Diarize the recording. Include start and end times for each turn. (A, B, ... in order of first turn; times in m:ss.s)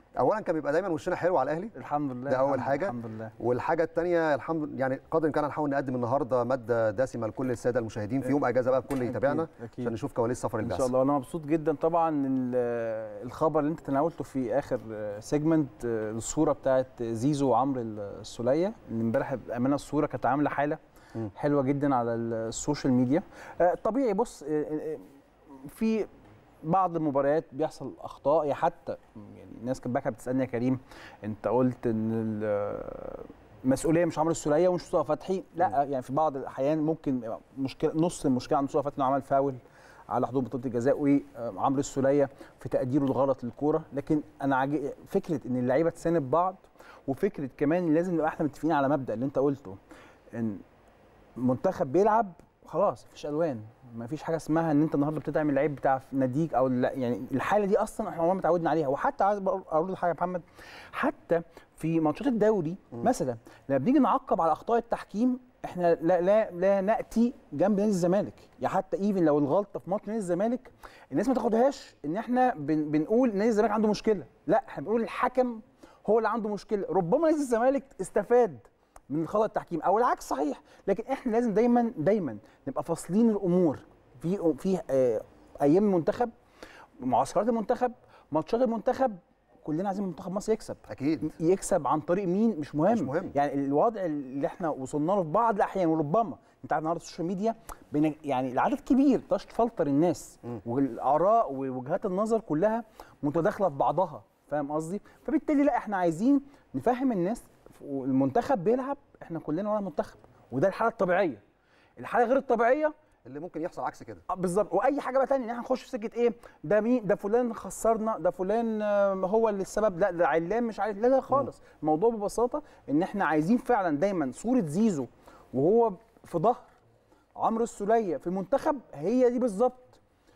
0:00.2-0:01.7 A
0:01.8-0:03.3 B
0:02.3-0:10.9 A
0:08.9-0:09.9 B
0:10.6-0:20.8 B
0:21.3-0:25.0 B
0:25.6-0:26.1 B
0:26.6-0:49.8 B
0:50.3-0:50.6 B
0:51.4-1:26.3 B
1:27.0-1:51.4 B
1:30.9-1:31.3 A
1:32.9-1:33.4 A
1:52.0-1:52.9 B
1:53.3-1:54.2 A
1:54.3-2:06.7 B
2:07.4-2:10.0 B